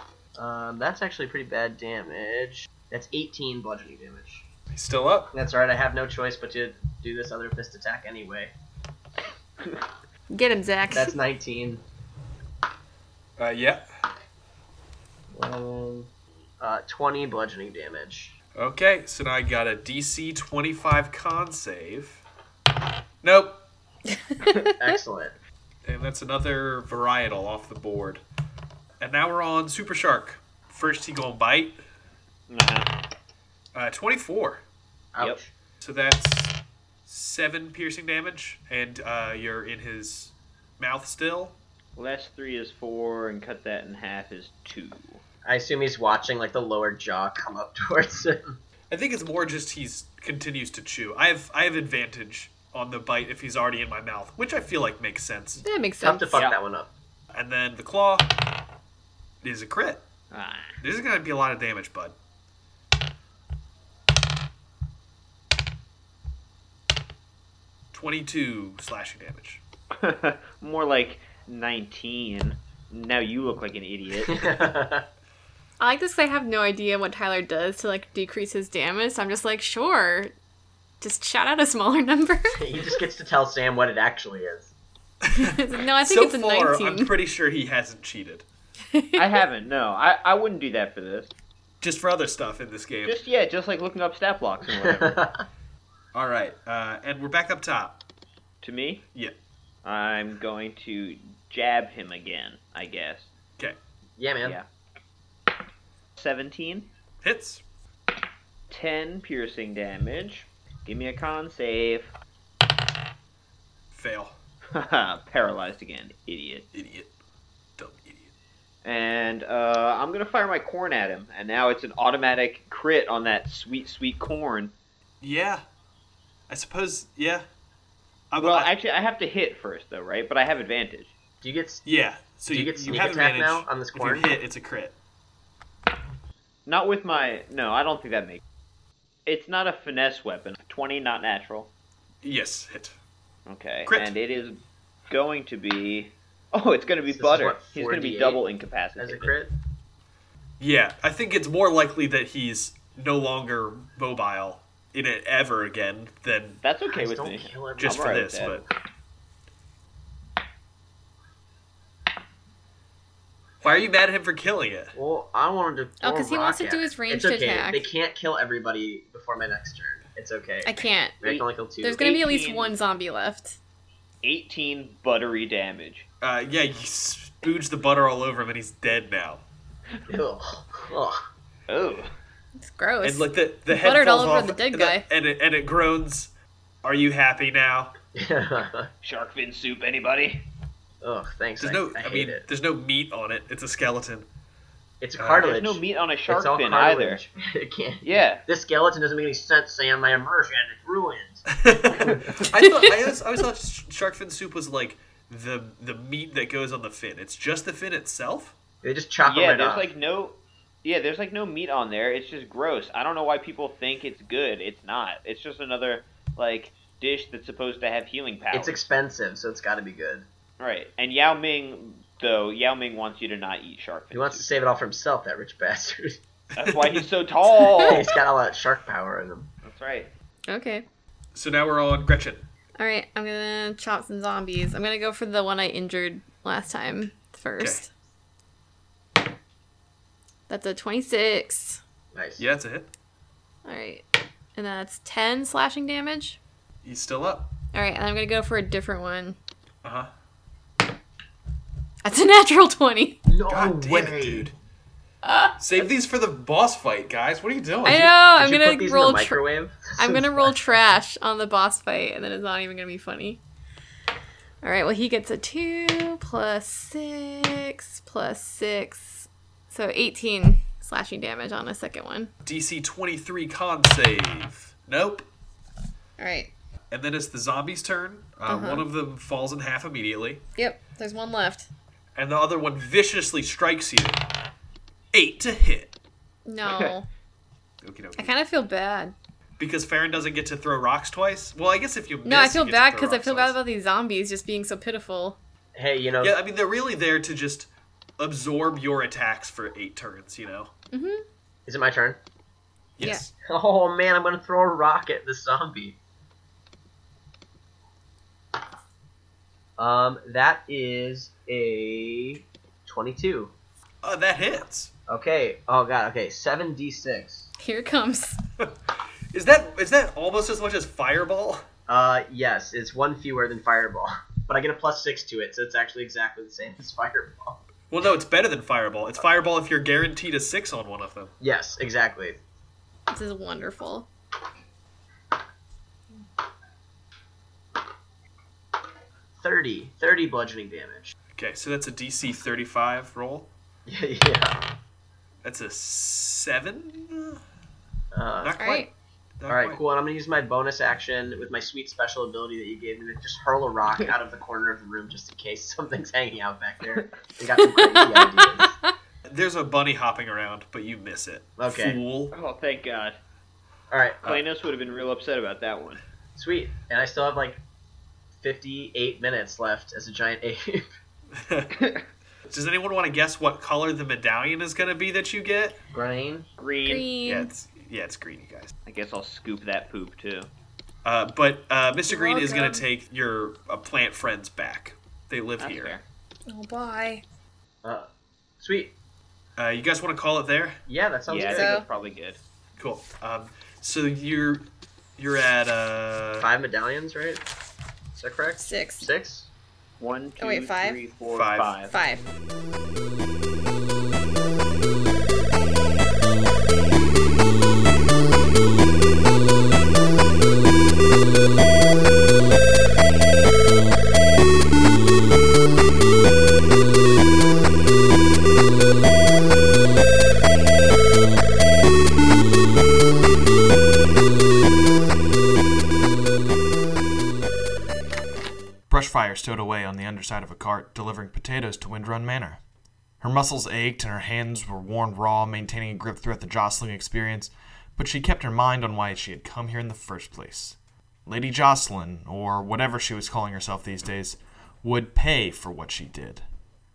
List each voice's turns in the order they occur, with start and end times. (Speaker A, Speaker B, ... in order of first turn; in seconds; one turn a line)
Speaker A: 0.4-4.5
Speaker B: 4.7-5.3
Speaker A: 5.3-8.5
Speaker C: 10.3-11.2
Speaker A: 10.9-11.8
Speaker B: 13.4-13.8
Speaker A: 15.3-18.3
Speaker B: 18.6-22.2
Speaker B: 23.2-23.6
Speaker C: 24.1-24.7
Speaker A: 24.7-25.3
Speaker B: 25.9-28.2
Speaker B: 29.0-31.8
Speaker D: 32.5-32.9
Speaker B: 33.7-34.6
Speaker A: 35.1-35.5
Speaker B: 35.8-41.6
Speaker D: 42.0-45.2
Speaker A: 45.5-48.6
Speaker B: 48.9-55.6
Speaker C: 55.6-56.5
Speaker A: 56.0-56.9
Speaker B: 57.3-58.3
Speaker B: 59.4-60.0
Speaker D: 60.3-60.8
Speaker B: 60.8-62.2
Speaker B: 67.9-69.6
Speaker D: 70.0-74.6
Speaker A: 74.2-75.1
Speaker C: 75.8-80.3
Speaker C: 81.0-82.6
Speaker A: 82.6-84.7
Speaker B: 85.2-88.5
Speaker C: 85.3-87.2
Speaker C: 88.9-89.3
Speaker D: 89.2-91.3
Speaker B: 91.8-93.2
Speaker D: 93.0-95.2
Speaker A: 94.8-95.4
Speaker B: 96.1-98.0
Speaker D: 98.6-99.1
Speaker D: 99.8-103.3
Speaker A: 104.2-104.6
Speaker D: 106.2-106.9
Speaker B: 107.2-107.6
Speaker D: 108.7-112.1
Speaker B: 113.9-114.3
Speaker D: 114.7-116.7
Speaker B: 116.7-117.1
Speaker B: 117.8-118.3
Speaker D: 118.8-124.7
Speaker B: 125.2-125.6
Speaker B: 126.5-127.5
Speaker B: 128.3-128.7
Speaker D: 128.4-131.1
Speaker A: 131.4-131.8
Speaker B: 131.8-134.9
Speaker A: 132.5-134.3
Speaker D: 136.7-138.4
Speaker D: 139.3-141.7
Speaker B: 142.2-143.0
Speaker D: 143.5-149.3
Speaker B: 143.9-144.1
Speaker A: 147.1-148.4
Speaker A: 148.9-149.5
Speaker B: 150.6-156.6
Speaker D: 156.6-158.6
Speaker A: 156.9-158.5
Speaker B: 157.8-158.6
Speaker B: 163.6-164.9
Speaker A: 164.9-172.0
Speaker C: 166.0-167.9
Speaker C: 170.7-173.6
Speaker D: 172.0-172.8
Speaker D: 174.2-176.1
Speaker B: 176.2-179.4
Speaker A: 180.1-181.3
Speaker D: 181.7-182.1
Speaker C: 182.6-185.1
Speaker B: 183.0-186.3
Speaker B: 186.8-187.9
Speaker A: 188.2-188.9
Speaker D: 189.0-190.4
Speaker A: 191.0-192.4
Speaker B: 191.6-194.3
Speaker A: 195.0-202.4
Speaker B: 195.2-195.5
Speaker D: 195.4-197.2
Speaker D: 198.0-198.4
Speaker B: 201.5-208.6
Speaker C: 202.6-202.9
Speaker A: 208.8-209.9
Speaker D: 209.2-218.8
Speaker A: 218.5-220.3
Speaker D: 220.6-224.5
Speaker A: 224.1-226.2
Speaker B: 226.6-227.1
Speaker D: 226.6-228.2
Speaker A: 227.8-229.5
Speaker D: 229.6-230.1
Speaker C: 230.5-230.8
Speaker B: 231.3-232.4
Speaker C: 232.8-237.9
Speaker B: 237.6-237.8
Speaker C: 240.5-241.8
Speaker A: 242.2-242.4
Speaker B: 242.4-242.9
Speaker C: 243.7-246.4
Speaker B: 246.8-247.5
Speaker C: 247.7-249.4
Speaker B: 249.8-250.1
Speaker C: 252.0-253.2
Speaker A: 253.3-254.5
Speaker B: 253.5-254.5
Speaker C: 255.2-255.6
Speaker B: 255.6-258.1
Speaker C: 257.8-263.4
Speaker A: 258.4-260.6
Speaker C: 264.6-272.3
Speaker B: 272.4-275.3
Speaker C: 276.2-276.5
Speaker B: 276.9-280.4
Speaker C: 278.5-278.9
Speaker C: 280.6-281.7
Speaker B: 282.2-284.2
Speaker B: 285.1-285.9
Speaker C: 286.5-287.1
Speaker D: 286.7-286.9
Speaker B: 287.8-288.3
Speaker C: 288.2-289.1
Speaker B: 289.6-293.6
Speaker C: 292.2-295.4
Speaker A: 295.8-296.3
Speaker B: 296.2-300.7
Speaker C: 300.9-301.2
Speaker A: 301.7-302.2
Speaker B: 303.0-303.3
Speaker C: 303.0-303.3
Speaker A: 303.4-306.0
Speaker A: 309.8-313.5
Speaker B: 314.0-314.9
Speaker A: 315.1-317.5
Speaker C: 317.6-318.4
Speaker B: 319.3-321.6
Speaker A: 321.9-327.6
Speaker B: 327.9-331.3
Speaker A: 331.4-332.4
Speaker C: 333.1-334.1
Speaker A: 339.4-341.1
Speaker B: 341.4-343.5
Speaker A: 343.9-344.6
Speaker B: 345.4-347.4
Speaker A: 348.1-348.6
Speaker B: 348.4-348.9
Speaker C: 348.6-348.9
Speaker B: 349.4-349.8
Speaker A: 349.5-358.8
Speaker C: 357.6-358.9
Speaker B: 359.3-362.3
Speaker A: 361.6-362.0
Speaker D: 362.3-363.2
Speaker A: 363.9-364.4
Speaker D: 364.2-366.0
Speaker A: 366.4-367.6
Speaker A: 368.4-370.9
Speaker B: 371.4-371.8
Speaker D: 371.7-372.1
Speaker B: 372.5-375.8
Speaker A: 375.9-376.5
Speaker D: 376.6-377.1
Speaker C: 376.8-377.5
Speaker B: 377.2-378.7
Speaker D: 378.9-380.5
Speaker B: 381.0-385.9
Speaker C: 382.1-382.9
Speaker D: 385.6-386.0
Speaker C: 386.5-387.2
Speaker A: 388.6-388.9
Speaker B: 389.6-390.8
Speaker A: 390.9-391.8
Speaker D: 391.3-392.4
Speaker C: 391.5-391.9
Speaker B: 392.8-396.5
Speaker A: 396.4-397.4
Speaker A: 398.1-399.5
Speaker C: 398.6-399.1
Speaker D: 400.0-401.9
Speaker C: 400.4-401.0
Speaker B: 401.3-401.7
Speaker C: 401.9-402.2
Speaker E: 428.9-432.6
Speaker E: 433.2-446.4